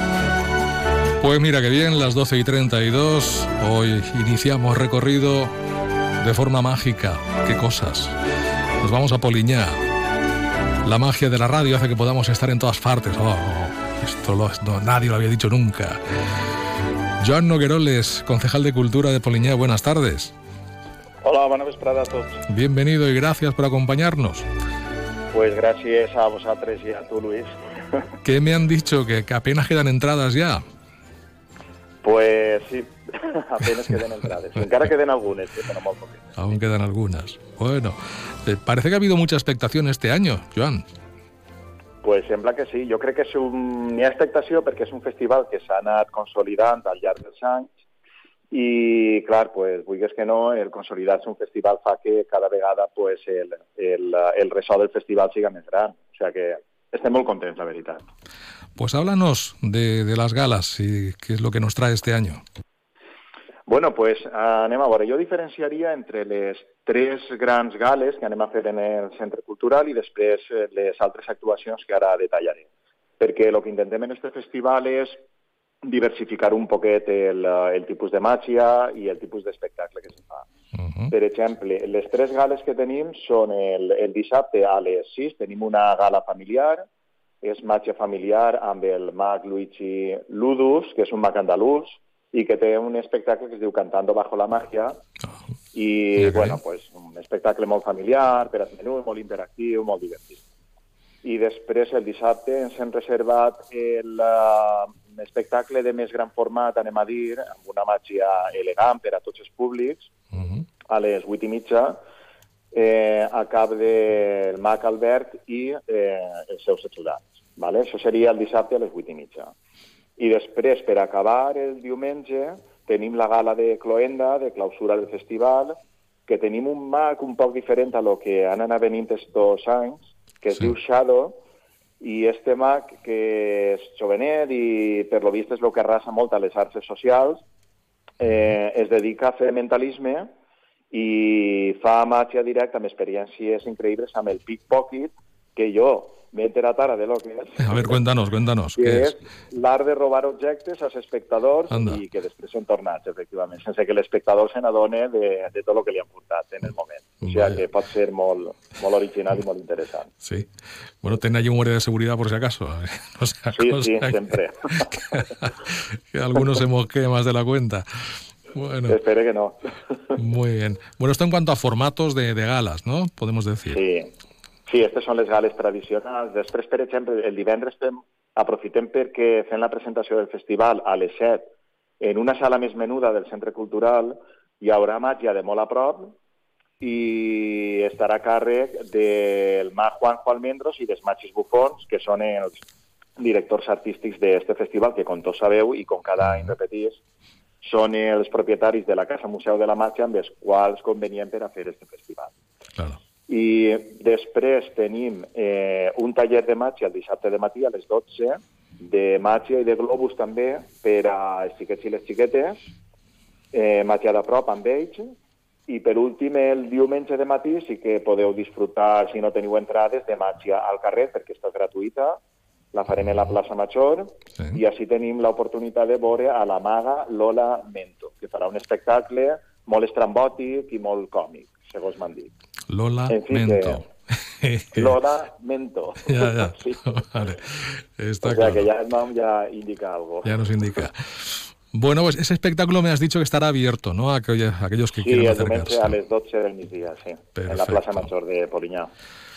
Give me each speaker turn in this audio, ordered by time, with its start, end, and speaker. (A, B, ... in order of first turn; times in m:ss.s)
0:01.2-0:05.5 A
0:06.2-0:08.1 A
0:08.8-0:09.7 A
0:10.8-0:16.0 A
0:17.2-0:20.3 A
0:21.2-0:22.4 B
0:22.5-0:24.4 A
0:25.3-0:28.0 B
0:28.2-0:30.6 A
0:32.0-0:36.4 B
0:36.4-0:40.8 A
0:42.0-0:47.7 B
0:48.5-0:58.0 B
0:58.8-1:02.4 A
1:03.7-1:12.7 B
1:13.2-1:15.2 B
1:15.8-1:20.5 B
1:21.1-1:26.8 B
1:27.4-1:35.0 B
1:35.7-1:40.4 B
1:36.2-1:36.6 A
1:41.2-1:50.1 B
1:50.9-1:52.0 B
1:52.7-1:59.5 B
2:00.2-2:05.8 B
2:06.3-2:11.4 B
2:12.0-2:17.4 B
2:18.2-2:20.3 B
2:20.9-2:28.0 B
2:27.6-2:29.2 A
2:28.8-2:40.1 B
2:31.7-2:32.0 A
2:37.2-2:37.6 A
2:41.0-2:44.2 A
2:43.5-2:45.0 B
2:44.8-2:49.0 A
2:48.9-2:50.2 B
2:50.1-2:53.8 A
2:53.7-2:54.1 B
2:54.7-3:01.4 B
3:02.0-3:06.1 B
3:06.8-3:12.6 B
3:13.2-3:17.0 B
3:17.6-3:22.3 B
3:23.3-3:32.7 B
3:33.5-3:35.1 B
3:35.7-3:42.2 B
3:42.7-3:52.3 B
3:52.7-3:55.0 A
3:53.1-3:53.8 B
3:54.7-3:57.0 B
3:56.0-3:58.7 A
3:58.2-4:00.4 B
4:00.2-4:05.9 A
4:05.0-4:08.9 B
4:07.4-4:08.1 A